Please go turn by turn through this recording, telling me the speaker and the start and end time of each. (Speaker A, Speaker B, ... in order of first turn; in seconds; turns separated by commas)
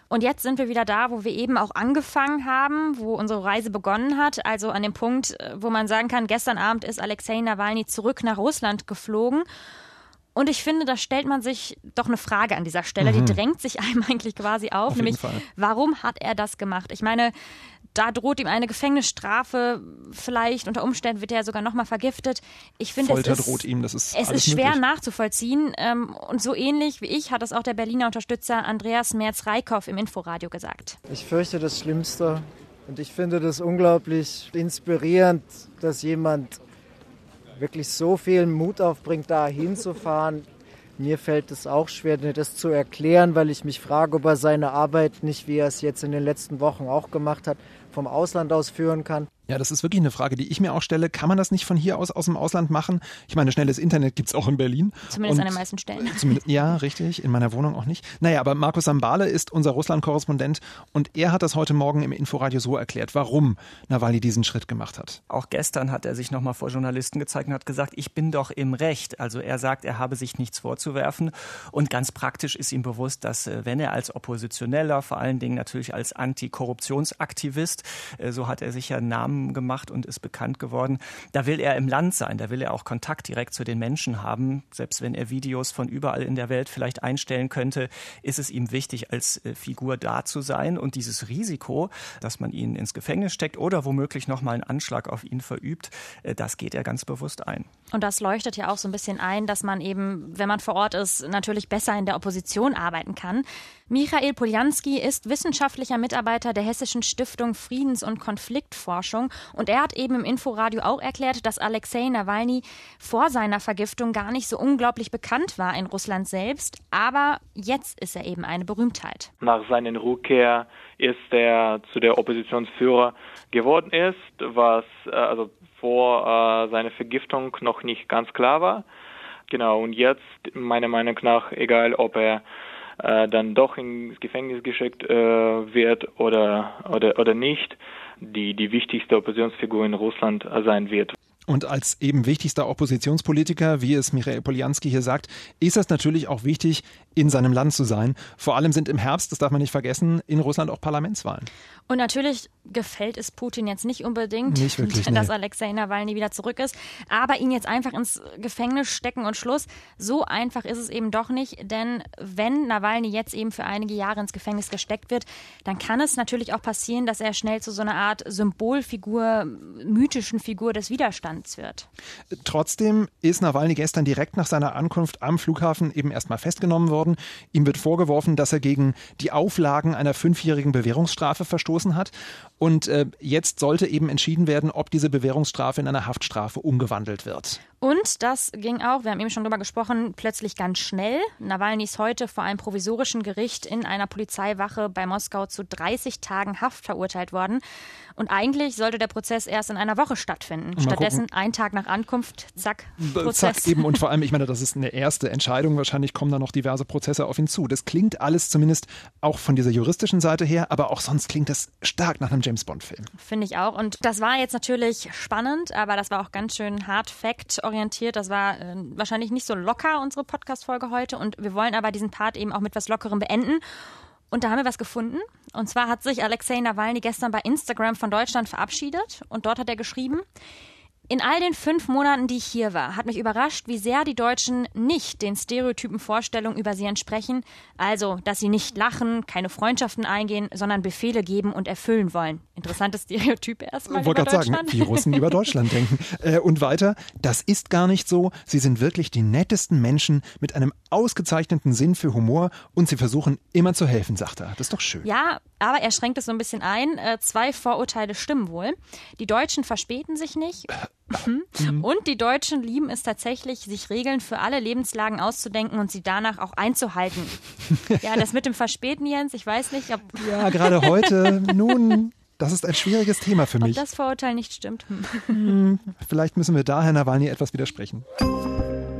Speaker A: 0.1-9.4, Speaker A: 10.3-17.3, Speaker B: 13.0-13.4, Speaker B: 14.9-15.4, Speaker A: 17.9-31.0, Speaker B: 23.0-24.8, Speaker C: 31.1-36.6, Speaker C: 37.6-40.4, Speaker C: 41.0-49.3, Speaker B: 49.5-65.2, Speaker A: 55.1-56.4, Speaker D: 65.3-97.7, Speaker A: 97.9-119.3, Speaker E: 119.4-128.8, Speaker E: 129.5-132.4, Speaker E: 133.0-141.1, Speaker B: 141.5-151.5, Speaker A: 151.9-171.9, Speaker B: 154.5-155.3, Speaker B: 172.3-187.6, Speaker A: 187.8-197.6, Speaker A: 198.2-203.9, Speaker B: 200.8-201.2, Speaker B: 203.0-213.1, Speaker A: 213.2-223.6, Speaker A: 224.3-230.2, Speaker A: 231.1-245.4, Speaker B: 243.9-255.1, Speaker A: 255.0-267.4, Speaker A: 267.9-271.1, Speaker B: 270.2-273.8, Speaker A: 273.6-275.4, Speaker B: 275.3-278.0